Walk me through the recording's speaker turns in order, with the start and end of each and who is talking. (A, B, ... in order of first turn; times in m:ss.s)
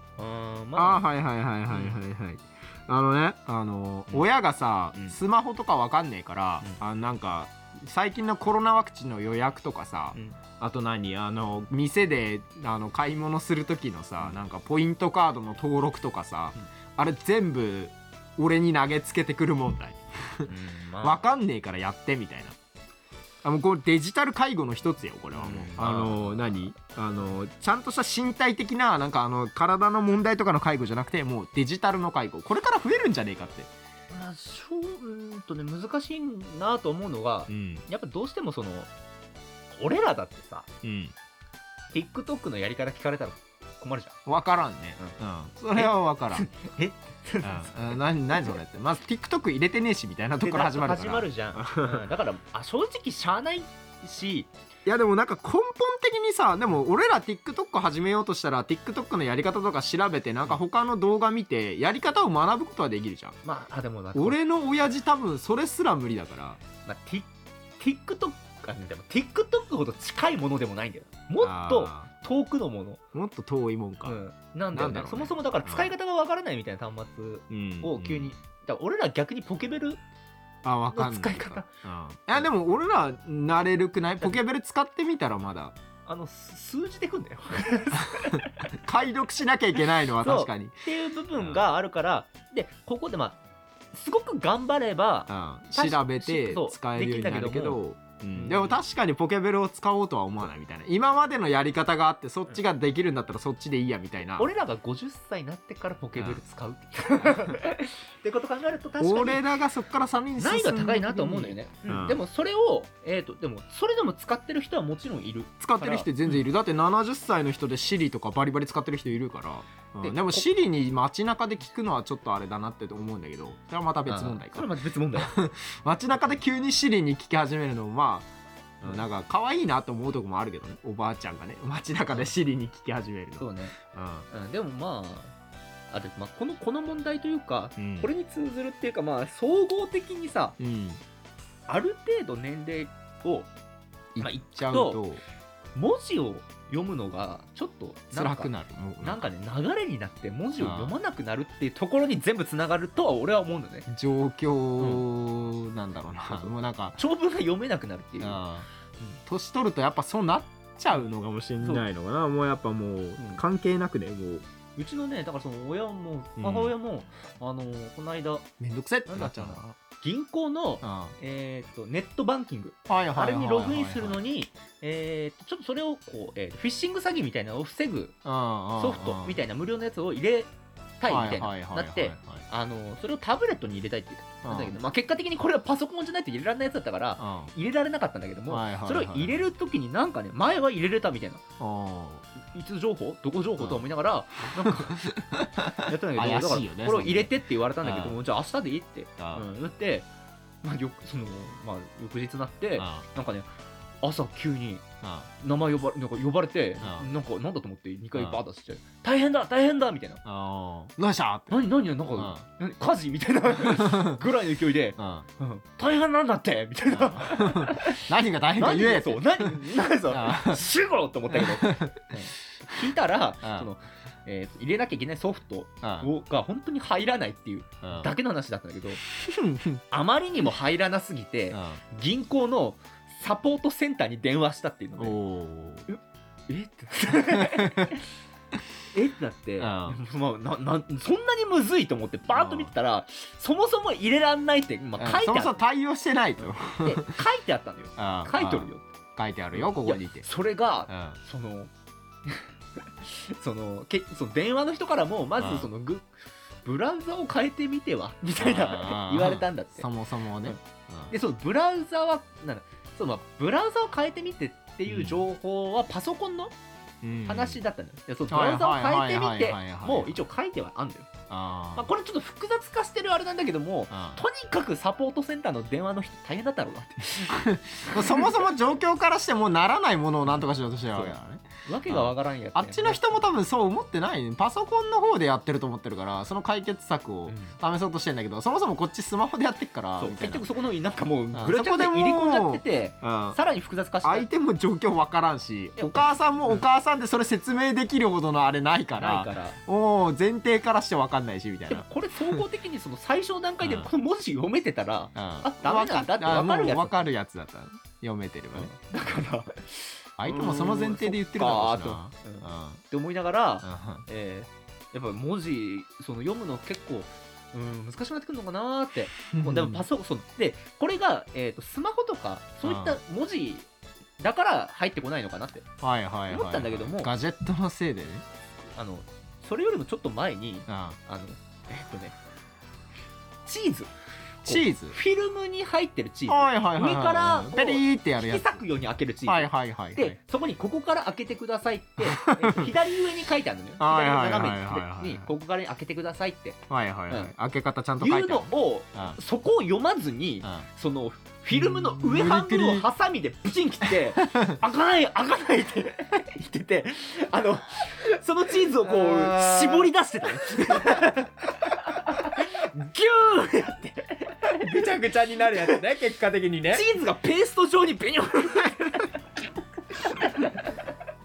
0:00.2-0:01.0 A
0:00.8-0:22.6 B
0:01.7-0:02.0 A
0:10.1-0:10.4 A
0:20.4-0:21.3 A
0:23.4-0:33.7 B
0:25.3-0:26.7 A
0:34.1-0:38.9 A
0:37.5-0:37.8 B
0:39.8-0:40.7 A
0:40.8-0:41.1 B
0:41.9-0:44.2 A
0:44.2-0:46.5 B
0:45.7-0:48.6 A
0:47.4-0:52.0 B
0:50.4-0:54.5 A
0:54.8-1:03.4 B
1:03.4-1:04.4 A
1:04.1-1:06.6 B
1:06.8-1:07.3 A
1:07.8-1:13.0 A
1:11.4-1:12.1 B
1:13.1-1:14.2 B
1:14.0-1:20.0 A
1:14.7-1:15.9 B
1:17.5-1:18.3 B
1:20.6-1:25.8 B
1:20.9-1:21.7 A
1:26.0-1:28.7 A
1:28.2-1:30.8 B
1:30.2-1:33.4 A
1:31.4-1:31.7 B
1:33.9-1:38.8 A
1:35.3-1:44.5 B
1:44.4-1:49.5 A
1:46.2-1:46.4 B
1:47.2-1:47.5 B
1:49.0-1:52.2 B
1:50.4-1:56.4 A
1:55.6-2:08.3 B
2:00.0-2:00.4 A
2:04.1-2:05.4 A
2:08.8-2:14.3 B
2:13.4-2:13.8 A
2:14.3-2:15.3 A
2:15.9-2:20.6 A
2:17.8-2:18.1 B
2:20.6-2:21.0 B
2:21.7-2:23.5 A
2:24.1-2:25.2 B
2:24.2-2:25.0 A
2:25.7-2:33.9 A
2:28.1-2:29.2 B
2:30.6-2:30.9 B
2:33.9-2:37.0 B
2:34.8-2:35.0 A
2:36.3-2:38.4 A
2:38.2-2:38.7 B
2:39.2-2:44.4 B
2:43.2-2:43.4 A
2:44.8-2:48.5 A
2:46.4-2:46.7 B
2:48.6-2:49.7 B
2:49.1-2:58.2 A
2:50.8-2:51.1 B
2:52.9-2:54.2 B
2:58.2-2:59.4 B
2:58.8-3:11.4 A
3:01.1-3:02.4 B
3:04.4-3:04.8 B
3:07.2-3:07.5 B
3:08.5-3:09.5 B
3:11.6-3:12.2 B
3:12.4-3:15.1 A
3:13.6-3:13.8 B
3:14.6-3:18.2 B
3:15.7-3:20.1 A
3:19.2-3:19.4 B
3:20.6-3:23.5 A
3:22.8-3:23.0 B
3:24.0-3:24.8 A
3:25.0-3:25.3 B
3:25.4-3:30.2 A
3:26.8-3:27.1 B
3:28.1-3:28.4 B
3:30.2-3:31.6 B
3:31.5-3:49.0 A
3:32.1-3:32.4 B
3:33.6-3:34.2 B
3:35.0-3:35.2 B
3:36.9-3:40.6 B
3:41.3-3:42.1 B
3:43.4-3:43.7 B
3:45.8-3:46.1 B
3:47.8-3:48.1 B
3:49.1-3:49.8 B
3:49.9-3:55.2 A
3:51.5-3:51.8 B
3:55.0-3:55.8 B
3:55.9-3:58.0 A
3:57.4-3:57.9 B
3:58.9-4:05.6 A
3:59.6-4:00.0 B
4:02.3-4:02.7 B
4:05.0-4:07.1 B
4:06.4-4:08.8 A
4:08.0-4:10.2 B
4:09.5-4:11.7 A
4:10.9-4:11.2 B
4:13.0-4:16.1 A
4:15.4-4:15.7 B
4:16.6-4:19.9 A
4:18.4-4:21.1 B
4:21.1-4:26.5 A
4:24.9-4:25.2 B
4:27.0-4:27.6 B
4:27.2-4:31.1 A
4:28.3-4:30.2 B
4:31.3-4:31.9 B
4:31.7-4:38.4 A
4:33.9-4:34.2 B
4:37.3-4:50.4 B
4:40.3-4:41.1 A
4:41.6-4:43.1 A
4:47.3-4:47.5 A
4:50.0-4:54.3 A
4:51.3-4:53.4 B
4:54.0-5:02.4 B
4:55.8-4:56.6 A
4:58.9-4:59.6 A
5:01.7-5:07.1 A
5:03.6-5:03.9 B
5:05.1-5:08.7 B
5:08.5-5:23.7 A
5:10.2-5:12.8 B
5:13.6-5:14.0 B
5:19.3-5:19.8 B
5:22.6-5:23.0 B
5:24.2-5:25.6 A
5:25.8-5:28.2 B
5:26.3-5:27.1 A
5:28.8-5:32.2 A
5:30.7-5:31.0 B
5:33.4-5:33.9 A
5:34.4-5:47.3 A
5:34.4-5:35.0 B
5:36.3-5:38.6 B
5:39.3-5:40.2 B
5:42.0-5:42.7 B
5:43.8-5:45.3 B
5:46.7-5:49.2 B
5:48.0-6:04.7 A
5:51.5-5:52.9 B
5:54.2-5:54.6 B
5:58.8-6:01.1 B
6:04.5-6:06.8 B
6:06.7-6:09.1 A
6:10.1-6:10.5 A